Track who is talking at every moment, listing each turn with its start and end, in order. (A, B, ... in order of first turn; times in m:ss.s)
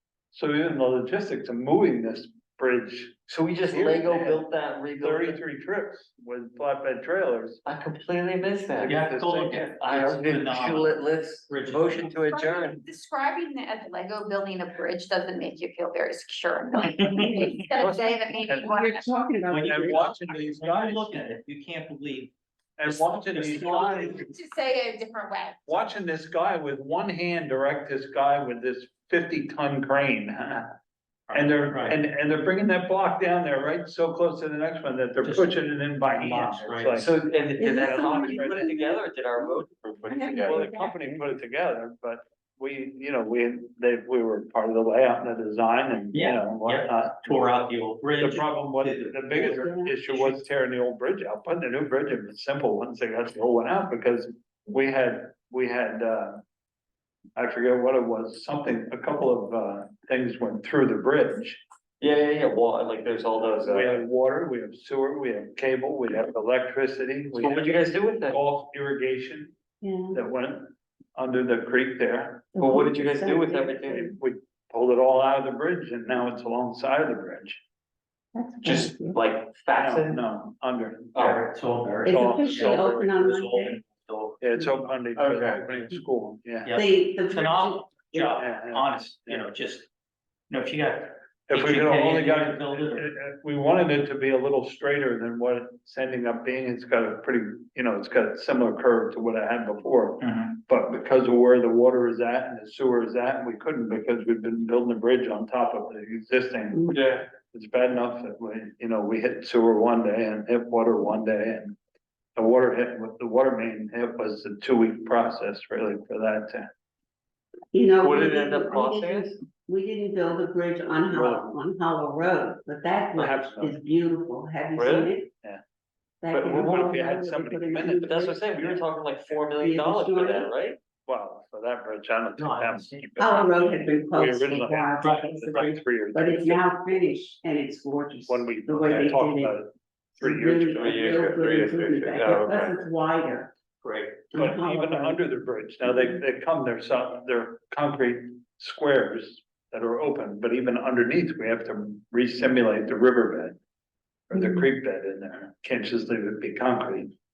0:00.3-0:07.6 A
0:03.3-0:05.4 B
0:07.7-0:12.8 B
0:08.8-0:12.2 C
0:08.9-0:09.7 A
0:12.2-0:19.2 D
0:17.8-0:18.8 A
0:18.5-0:20.1 E
0:19.5-0:24.2 C
0:19.5-0:21.2 A
0:22.8-0:24.3 A
0:23.8-0:25.8 D
0:25.7-0:30.7 A
0:31.3-0:32.0 C
0:31.3-0:38.7 A
0:35.2-0:37.0 C
0:37.0-0:40.6 B
0:37.6-0:41.2 E
0:40.3-0:47.4 A
0:46.1-0:50.4 C
0:48.2-0:56.4 A
0:49.4-0:50.0 E
0:57.4-1:01.6 A
1:02.0-1:04.0 B
1:03.6-1:09.5 A
1:07.3-1:08.4 B
1:09.8-1:10.2 E
1:10.1-1:12.6 A
1:12.6-1:14.1 E
1:12.6-1:14.1 B
1:13.9-1:17.6 A
1:18.3-1:19.2 E
1:18.6-1:20.2 B
1:19.8-1:21.3 A
1:21.2-1:21.4 B
1:21.2-1:24.6 C
1:22.0-1:23.8 E
1:22.0-1:23.1 A
1:24.4-1:26.7 A
1:25.2-1:25.7 B
1:26.6-1:29.9 C
1:26.7-1:28.4 E
1:28.3-1:29.4 A
1:30.5-1:33.1 C
1:31.5-1:51.8 A
1:40.2-1:40.6 C
1:46.9-1:47.2 B
1:52.4-1:56.7 A
1:57.7-2:05.3 E
1:58.0-1:59.4 B
2:01.1-2:01.4 A
2:03.2-2:03.8 A
2:04.8-2:05.1 B
2:06.2-2:08.8 E
2:06.3-2:06.7 B
2:06.5-2:08.8 A
2:08.0-2:10.8 B
2:09.5-2:10.6 E
2:11.0-2:16.7 A
2:12.4-2:13.7 C
2:13.2-2:19.6 E
2:15.0-2:15.7 C
2:18.3-2:21.0 A
2:20.2-2:23.5 E
2:20.8-2:22.8 B
2:23.8-2:24.2 C
2:24.3-2:25.2 E
2:24.3-2:33.6 A
2:34.3-2:37.1 A
2:34.3-2:34.7 E